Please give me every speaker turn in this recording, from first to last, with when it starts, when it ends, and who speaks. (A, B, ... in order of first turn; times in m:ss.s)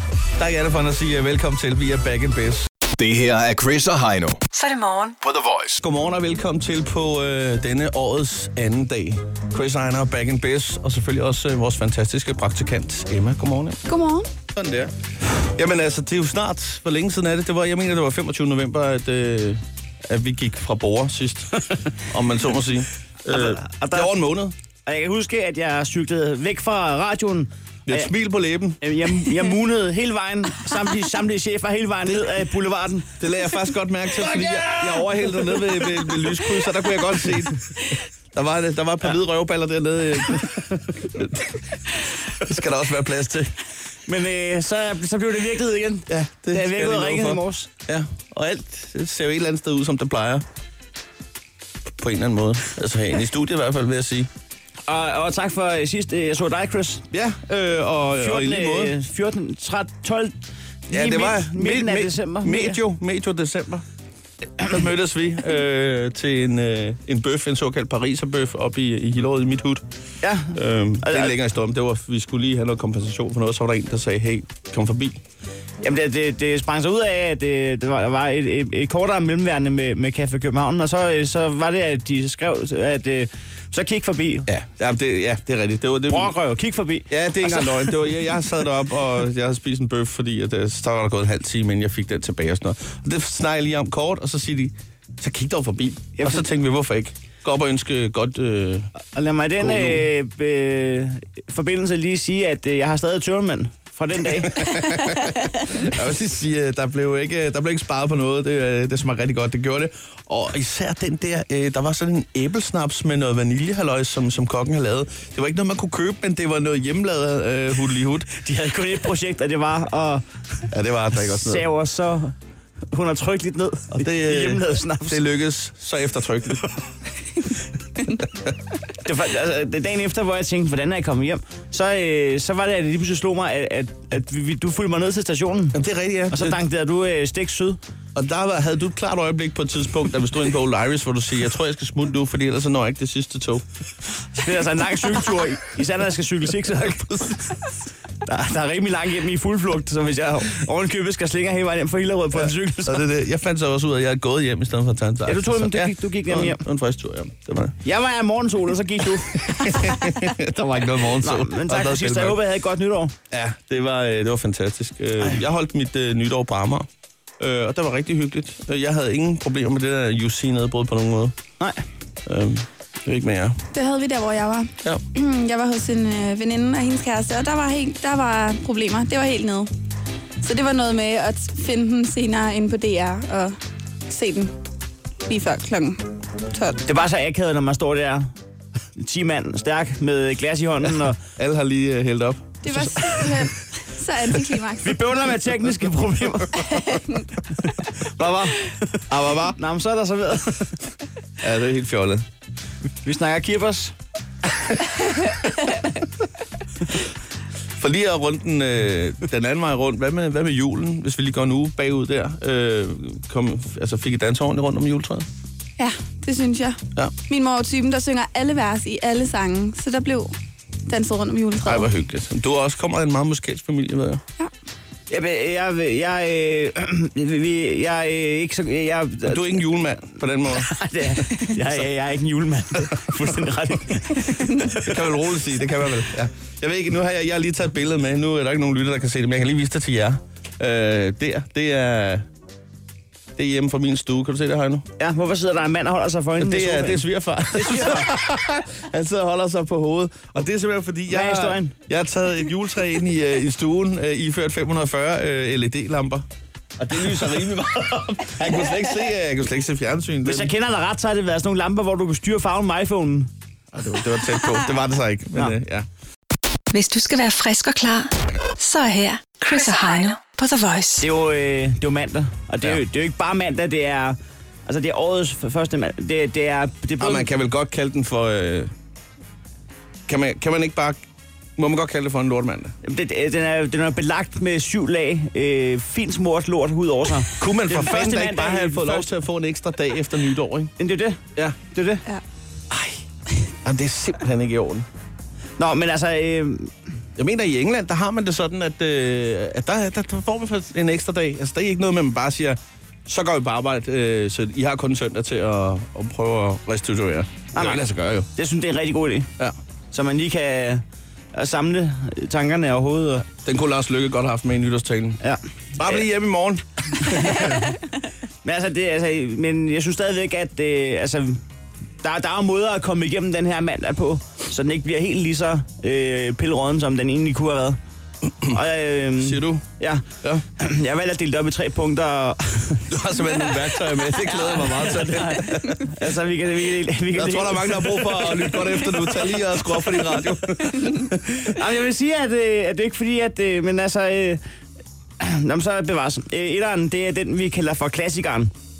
0:00.4-0:02.7 A
0:02.9-0:04.4 B
0:04.5-0:05.2 C
0:05.2-0:05.8 B
0:05.8-0:13.8 A
0:13.9-0:14.3 D
0:14.5-0:24.5 A
0:23.3-0:24.1 E
0:24.8-0:28.1 E
0:27.9-0:28.8 A
0:28.8-0:33.2 E
0:33.2-0:41.6 A
0:34.2-0:36.2 E
0:42.2-0:43.5 A
0:44.1-0:47.7 E
0:46.1-0:50.4 A
0:52.0-0:54.3 A
0:54.9-0:57.1 E
0:57.1-0:58.9 A
0:58.2-1:02.8 E
1:00.9-1:03.8 A
1:04.6-1:09.8 A
1:10.2-1:11.4 E
1:10.5-1:15.2 A
1:15.8-1:24.5 E
1:24.4-1:26.3 A
1:26.1-1:28.1 E
1:27.1-1:38.9 A
1:36.2-1:36.5 E
1:39.1-1:44.7 E
1:39.6-1:40.1 A
1:44.3-1:58.4 A
1:58.4-2:00.2 E
2:00.7-2:01.7 A
2:01.2-2:02.3 E
2:02.9-2:05.2 E
2:04.0-2:06.7 A
2:08.2-2:08.5 A
2:09.0-2:15.8 E
2:15.7-2:16.6 A
2:16.3-2:17.8 E
2:18.1-2:23.6 A
2:24.3-2:27.7 E
2:28.2-2:33.1 E
2:32.8-2:37.8 A
2:35.2-2:36.6 E
2:37.8-2:39.9 E
2:39.3-2:42.4 A
2:41.2-2:43.2 E
2:43.3-2:46.9 A
2:47.4-2:51.3 A
2:52.2-2:53.6 A
2:53.7-2:59.7 D
3:00.4-3:03.6 D
3:04.1-3:04.6 D
3:05.2-3:06.8 D
3:06.8-3:08.3 E
3:09.0-3:11.2 E
3:11.4-3:13.5 A
3:12.6-3:15.0 D
3:14.8-3:16.8 E
3:16.6-3:17.3 D
3:17.6-3:18.8 E
3:19.1-3:19.6 A
3:19.6-3:20.8 E
3:21.4-3:22.2 A
3:23.0-3:24.0 E
3:27.8-3:35.2 A
3:35.8-3:40.3 D
3:40.8-3:41.9 D
3:41.6-3:44.2 A
3:45.1-3:49.5 E
3:49.2-3:50.7 A
3:50.4-3:55.1 E
3:54.7-4:02.3 A
4:03.4-4:04.8 A
4:05.0-4:08.2 E
4:06.4-4:16.2 A
4:11.1-4:11.7 E
4:16.8-4:20.5 A
4:20.2-4:23.3 E
4:23.7-4:25.9 A
4:26.7-4:31.1 C
4:31.0-4:37.3 E
4:37.0-4:38.7 A
4:40.1-4:41.0 A
4:41.6-4:42.7 A
4:42.8-4:49.1 E
4:47.4-4:50.7 A
4:50.8-4:52.0 E
4:53.6-4:54.8 A
4:55.6-4:56.7 E
4:57.2-5:08.3 A
5:07.5-5:09.3 E
5:09.9-5:13.3 E
5:13.4-5:15.2 A
5:15.2-5:16.0 E
5:15.8-5:17.6 A
5:17.1-5:17.5 E
5:18.4-5:21.4 E
5:22.0-5:27.8 E
5:28.4-5:30.0 E
5:29.2-5:29.6 A
5:30.6-5:32.9 E
5:32.9-5:36.0 A
5:34.7-5:39.0 E
5:37.1-5:41.5 A
5:41.4-5:44.4 E
5:45.2-5:48.5 E